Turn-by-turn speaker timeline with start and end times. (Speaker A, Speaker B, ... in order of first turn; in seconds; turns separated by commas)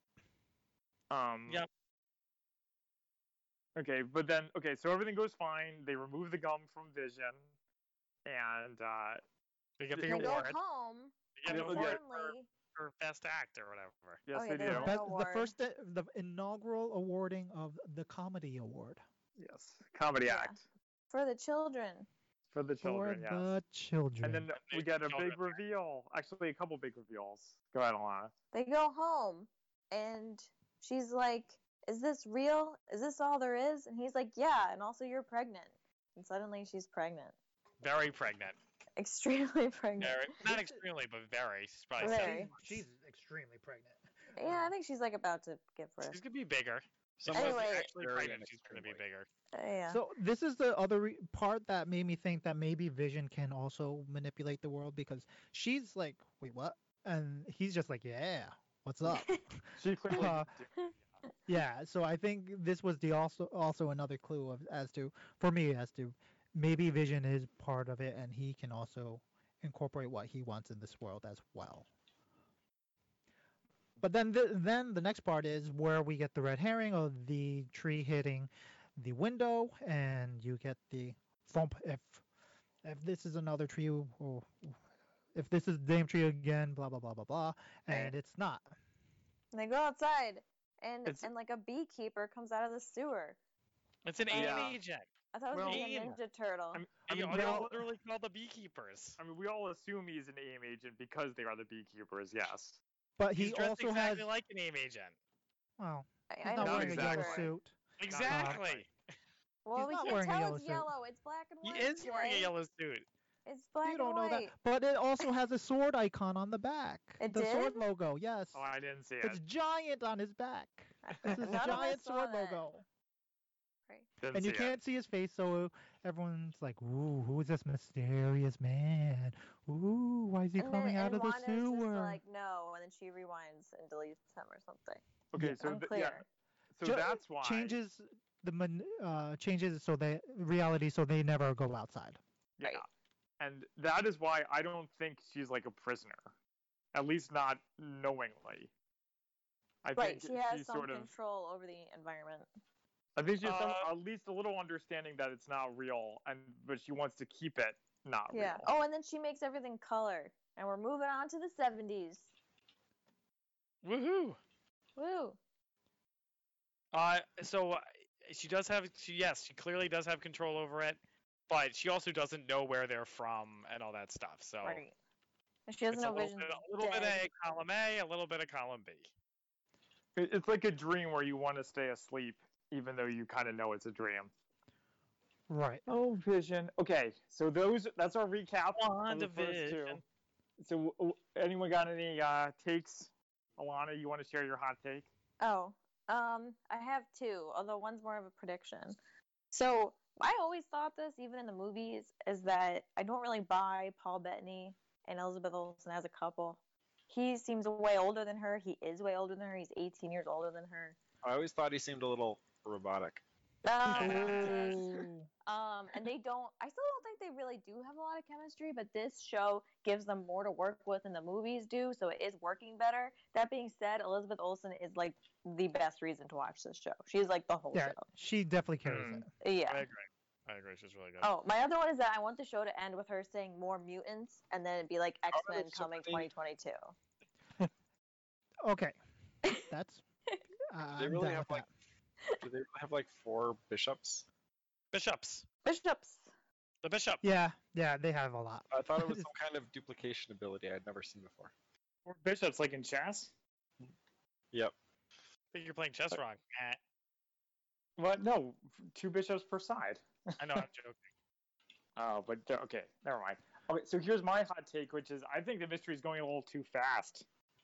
Speaker A: 1.1-1.6, Speaker A: 3.8-7.5, Speaker A: 8.2-9.2, Speaker B: 9.8-10.6, Speaker A: 9.9-10.4, Speaker C: 10.1-12.5, Speaker B: 11.3-14.2, Speaker A: 11.4-12.0, Speaker A: 14.2-14.9, Speaker C: 14.3-15.5, Speaker D: 14.6-19.0, Speaker A: 19.4-20.6, Speaker C: 20.2-20.6, Speaker C: 21.1-22.1, Speaker A: 22.5-23.5, Speaker D: 22.8-24.5, Speaker A: 24.2-28.3, Speaker B: 24.6-25.6, Speaker C: 28.5-37.3, Speaker B: 37.8-38.6, Speaker C: 39.0-40.4, Speaker B: 40.0-42.7, Speaker C: 42.0-42.5, Speaker D: 42.0-44.0, Speaker C: 44.3-46.2, Speaker B: 46.0-49.3, Speaker E: 47.2-49.0, Speaker C: 47.3-47.9, Speaker C: 49.5-50.0, Speaker D: 49.9-60.5, Speaker C: 59.1-59.4, Speaker A: 59.8-61.0, Speaker D: 61.5-71.9, Speaker D: 74.0-82.2, Speaker D: 82.8-84.8, Speaker D: 85.3-88.7, Speaker C: 89.5-93.4, Speaker B: 94.0-95.0, Speaker A: 94.3-94.8, Speaker C: 94.3-94.8, Speaker C: 95.3-96.8, Speaker A: 95.5-96.2, Speaker B: 95.7-96.2, Speaker A: 96.7-97.8, Speaker B: 97.1-99.2, Speaker D: 97.3-97.7, Speaker A: 99.2-102.8, Speaker D: 103.2-104.3, Speaker B: 103.3-105.1, Speaker D: 105.8-108.6, Speaker C: 106.3-107.5, Speaker A: 106.6-107.5, Speaker B: 108.0-108.9, Speaker A: 108.1-108.8, Speaker C: 109.6-112.5, Speaker D: 109.8-110.9, Speaker B: 111.6-113.0, Speaker C: 113.5-114.5, Speaker D: 113.8-118.6, Speaker C: 117.2-117.8, Speaker A: 118.5-119.4, Speaker D: 119.2-122.8, Speaker C: 121.0-122.6, Speaker A: 124.2-124.8, Speaker D: 124.3-132.2, Speaker C: 130.6-135.0, Speaker A: 135.3-137.8, Speaker D: 135.4-135.7, Speaker C: 135.6-136.2, Speaker D: 136.8-142.2, Speaker A: 142.6-142.9, Speaker A: 143.4-146.3, Speaker A: 146.9-148.7, Speaker A: 149.8-151.1, Speaker C: 149.9-152.5, Speaker A: 153.2-158.7, Speaker B: 153.4-153.9, Speaker C: 158.3-162.3, Speaker B: 163.8-164.4, Speaker C: 165.0-165.4, Speaker B: 166.9-174.8, Speaker C: 174.6-174.9, Speaker C: 175.7-177.2, Speaker B: 175.9-179.1, Speaker A: 180.2-184.3, Speaker D: 185.5-185.8, Speaker A: 185.9-190.0, Speaker B: 188.8-190.0, Speaker A: 190.6-195.1, Speaker C: 195.4-198.9, Speaker C: 199.5-210.9, Speaker E: 211.2-213.2, Speaker C: 213.6-228.1, Speaker B: 213.9-214.8, Speaker D: 213.9-215.3, Speaker D: 227.7-229.3, Speaker A: 228.9-229.2, Speaker C: 229.4-229.8, Speaker B: 229.7-231.3, Speaker C: 231.2-236.9, Speaker E: 235.3-236.3, Speaker D: 238.6-238.9, Speaker D: 239.5-240.0, Speaker D: 240.7-241.7, Speaker E: 241.0-241.6, Speaker E: 242.4-244.2, Speaker B: 244.9-245.4, Speaker C: 245.6-246.3, Speaker B: 246.8-247.2, Speaker D: 247.2-249.3, Speaker E: 248.7-251.5, Speaker A: 252.0-253.3, Speaker B: 255.5-256.8, Speaker A: 258.0-260.6, Speaker B: 260.4-261.0, Speaker A: 261.9-267.2